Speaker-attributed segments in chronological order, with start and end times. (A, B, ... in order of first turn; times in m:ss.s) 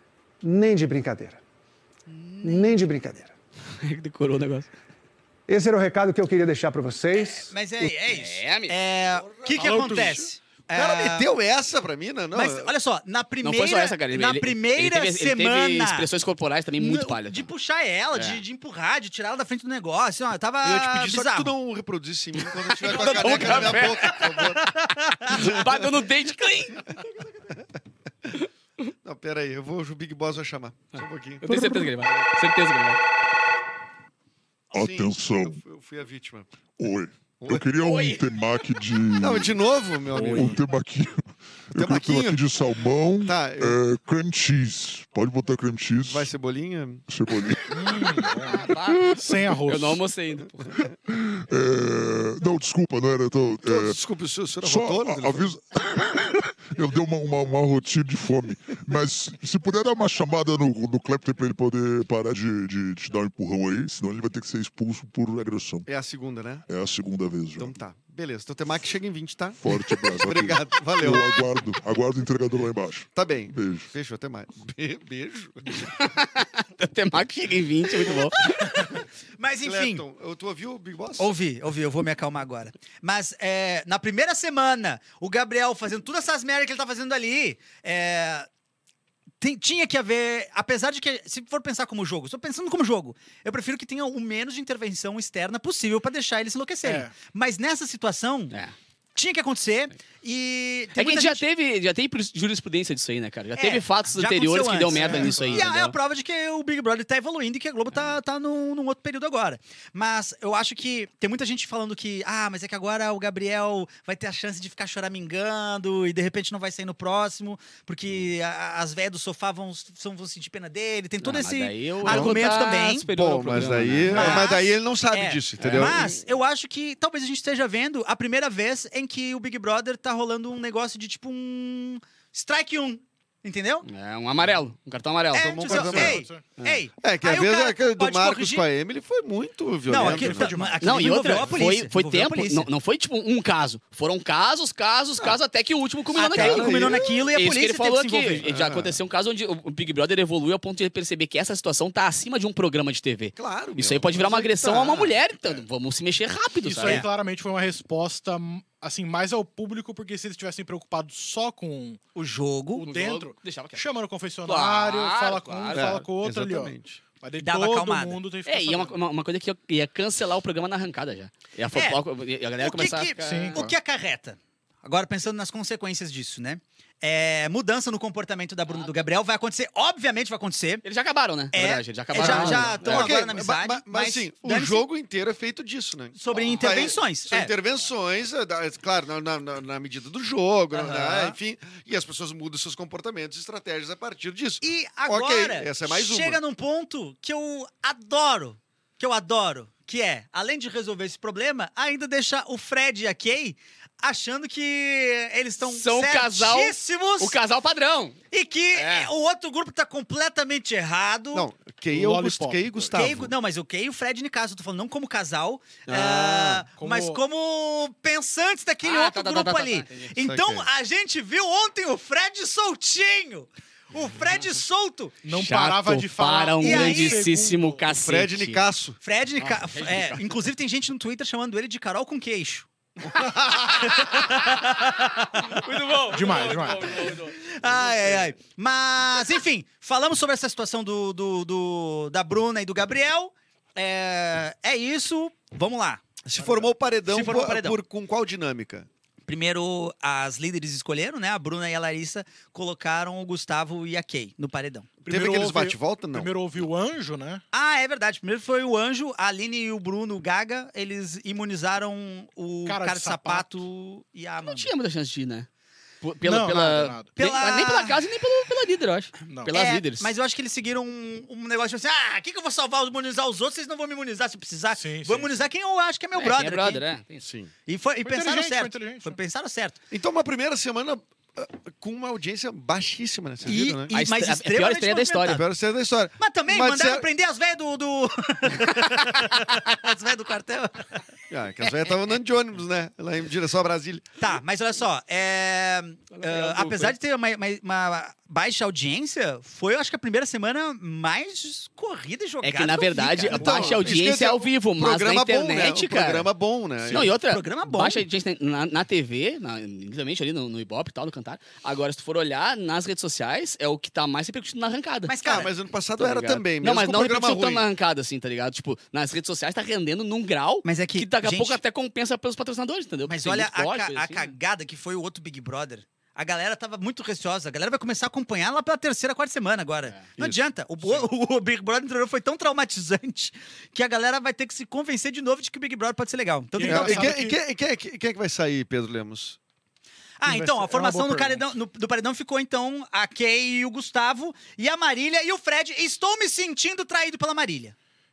0:00.4-0:01.4 A
0:02.1-0:02.7 B
0:02.4-0:03.3 A
0:03.8-0:04.7 C
0:05.5-0:07.9 A
0:07.2-0:11.3 B
0:08.1-0:08.7 C
0:09.1-0:12.7 D
0:09.6-0:10.2 E
0:12.3-0:16.1 B
0:13.4-0:17.5 C
0:16.8-0:21.5 B
0:20.6-0:24.7 D
0:22.8-0:24.4 C
0:22.8-0:25.4 B
0:25.3-0:27.0 C
0:25.3-0:25.9 D
0:29.0-0:31.8 D
0:31.4-0:33.0 C
0:34.7-0:35.6 F
0:34.8-0:36.5 D
0:36.8-0:39.5 F
0:37.4-0:37.7 D
0:37.8-0:38.2 C
0:39.2-0:40.6 D
0:40.1-0:46.3 F
0:41.8-0:42.4 D
0:43.2-0:43.8 D
0:46.0-0:47.0 D
0:47.1-0:48.3 F
0:47.7-0:50.0 E
0:48.5-0:50.8 C
0:51.1-0:54.0 F
0:53.6-0:55.5 D
0:54.6-1:05.9 F
1:05.9-1:06.6 D
1:06.7-1:07.8 F
1:07.6-1:11.4 D
1:09.6-1:13.9 F
1:13.1-1:15.8 D
1:15.8-1:18.6 C
1:18.4-1:20.0 B
1:19.6-1:21.3 D
1:21.2-1:28.5 B
1:29.4-1:38.5 B
1:36.8-1:37.1 E
1:39.2-1:41.4 B
1:41.0-1:45.9 C
1:43.6-2:03.1 B
1:44.9-1:45.7 E
2:01.2-2:04.5 C
2:02.0-2:06.2 D
2:04.1-2:13.8 B
2:05.6-2:06.0 C
2:13.9-2:15.8 C
2:15.3-2:18.6 B
2:15.4-2:20.6 D
2:15.6-2:16.4 E
2:19.9-2:22.7 B
2:19.9-2:21.4 E
2:20.8-2:37.0 C
2:26.1-2:28.4 B
2:26.3-2:27.1 D
2:28.4-2:29.0 D
2:33.4-2:35.1 D
2:36.6-2:42.0 E
2:42.1-2:42.8 B
2:42.8-2:49.0 E
2:42.8-2:43.8 C
2:44.4-2:46.0 C
2:45.7-2:47.0 D
2:47.4-2:48.2 B
2:48.4-2:53.6 C
2:51.7-2:52.0 B
2:52.6-3:00.8 B
2:53.2-2:53.7 E
2:58.7-2:59.0 C
3:00.8-3:03.2 C
3:01.5-3:04.8 B
3:02.1-3:16.4 D
3:02.2-3:02.7 E
3:06.2-3:07.5 B
3:10.7-3:11.4 B
3:14.6-3:27.4 B
3:25.6-3:28.2 C
3:28.3-3:31.5 B
3:28.7-3:29.1 C
3:31.3-3:33.3 D
3:31.9-3:33.0 E
3:32.9-3:45.2 B
3:35.9-3:36.6 D
3:36.7-3:37.2 E
3:38.8-3:40.1 C
3:40.2-3:40.7 D
3:45.2-3:47.8 E
3:45.3-3:48.6 C
3:46.6-3:47.2 B
3:47.9-3:49.0 D
3:49.0-3:52.7 B
3:49.4-3:50.2 C
3:53.6-3:55.6 B
3:53.7-3:54.0 C
3:55.5-3:57.4 C
3:56.1-3:57.1 E
3:57.4-4:06.0 B
4:06.2-4:08.9 D
4:06.4-4:06.7 E
4:07.1-4:07.8 B
4:09.2-4:14.9 B
4:15.0-4:17.4 E
4:15.1-4:16.3 D
4:17.5-4:24.7 B
4:22.6-4:23.6 E
4:24.4-4:25.5 C
4:26.0-4:30.1 C
4:26.2-4:27.1 E
4:27.2-4:28.0 B
4:29.3-4:29.5 E
4:29.5-4:36.8 B
4:34.8-4:35.4 E
4:36.2-4:37.2 C
4:37.2-4:37.5 D
4:37.6-4:39.8 B
4:38.0-4:39.2 E
4:39.9-4:43.9 D
4:43.4-4:45.4 B
4:43.9-4:45.4 C
4:45.3-4:47.0 D
4:46.2-4:51.0 B
4:51.3-4:54.1 D
4:54.2-5:03.8 B
4:56.2-4:56.9 C
5:02.4-5:06.3 C
5:03.3-5:07.1 D
5:06.9-5:15.1 C
5:07.2-5:08.0 B
5:15.0-5:15.5 B
5:15.2-5:17.6 D
5:16.0-5:24.3 C
5:20.6-5:21.6 B
5:23.1-5:37.2 B
5:36.5-5:37.4 E
5:36.6-5:39.4 D
5:40.2-5:47.8 B
5:40.2-5:41.4 E